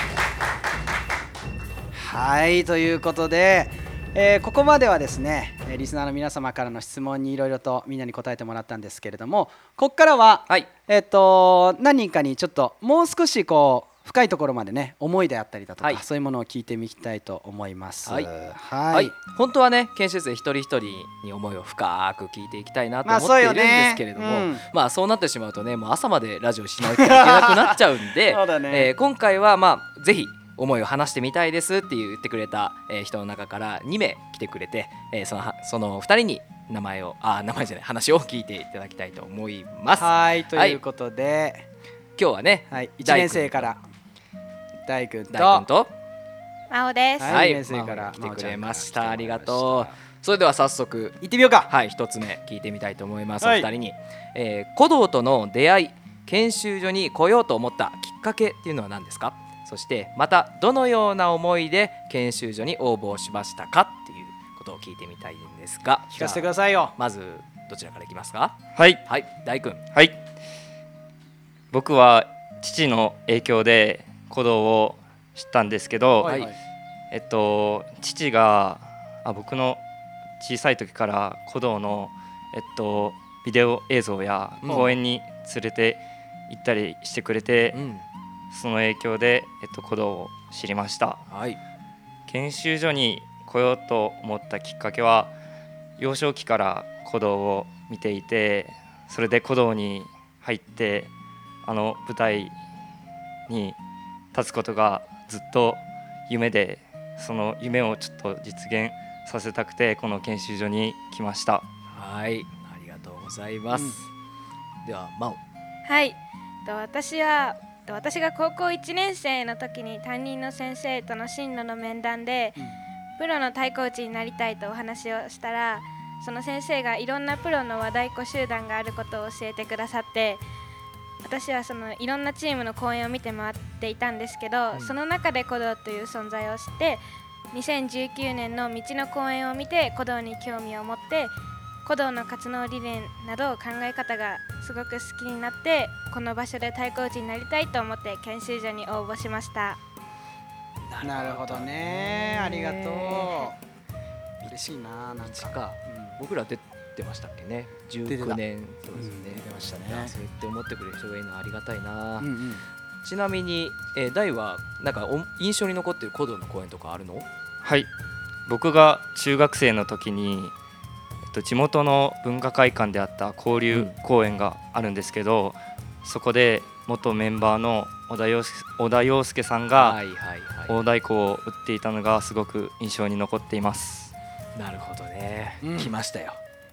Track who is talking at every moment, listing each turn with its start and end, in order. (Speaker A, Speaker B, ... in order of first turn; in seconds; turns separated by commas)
Speaker A: 1.9-19.1, Speaker B: 18.1-18.3, Speaker B: 18.9-40.8, Speaker A: 23.0-24.6, Speaker A: 27.0-28.9, Speaker A: 40.0-41.6, Speaker B: 42.2-43.7, Speaker A: 42.7-43.8, Speaker A: 44.9-45.6, Speaker B: 45.3-45.9, Speaker C: 46.7-47.4, Speaker A: 47.2-49.9, Speaker B: 47.3-69.8, Speaker A: 51.2-51.7, Speaker A: 53.4-53.7, Speaker A: 66.1-66.9, Speaker D: 68.7-69.0, Speaker D: 71.7-76.3, Speaker A: 76.2-76.5, Speaker B: 76.2-76.5, Speaker D: 77.1-79.8, Speaker D: 80.4-87.8, Speaker B: 84.6-84.9, Speaker B: 87.7-88.0, Speaker D: 88.5-91.2, Speaker B: 91.3-91.6, Speaker D: 92.3-95.3, Speaker D: 96.0-101.1, Speaker D: 101.6-102.5, Speaker D: 103.5-103.8, Speaker D: 104.3-111.6, Speaker B: 111.9-114.0, Speaker B: 114.8-115.4, Speaker C: 115.8-122.6, Speaker C: 123.2-130.4, Speaker C: 131.2-141.3, Speaker C: 141.8-149.8, Speaker B: 150.9-153.4, Speaker A: 151.0-153.6, Speaker A: 154.4-156.1, Speaker B: 155.2-162.3, Speaker A: 158.1-158.4, Speaker A: 158.9-160.1, Speaker A: 162.2-162.6, Speaker B: 163.0-167.3, Speaker D: 167.6-167.9, Speaker D: 168.5-170.5, Speaker D: 171.3-180.0, Speaker B: 173.7-174.0, Speaker B: 179.8-180.7, Speaker D: 180.7-184.1, Speaker B: 184.6-186.4, Speaker A: 185.6-185.9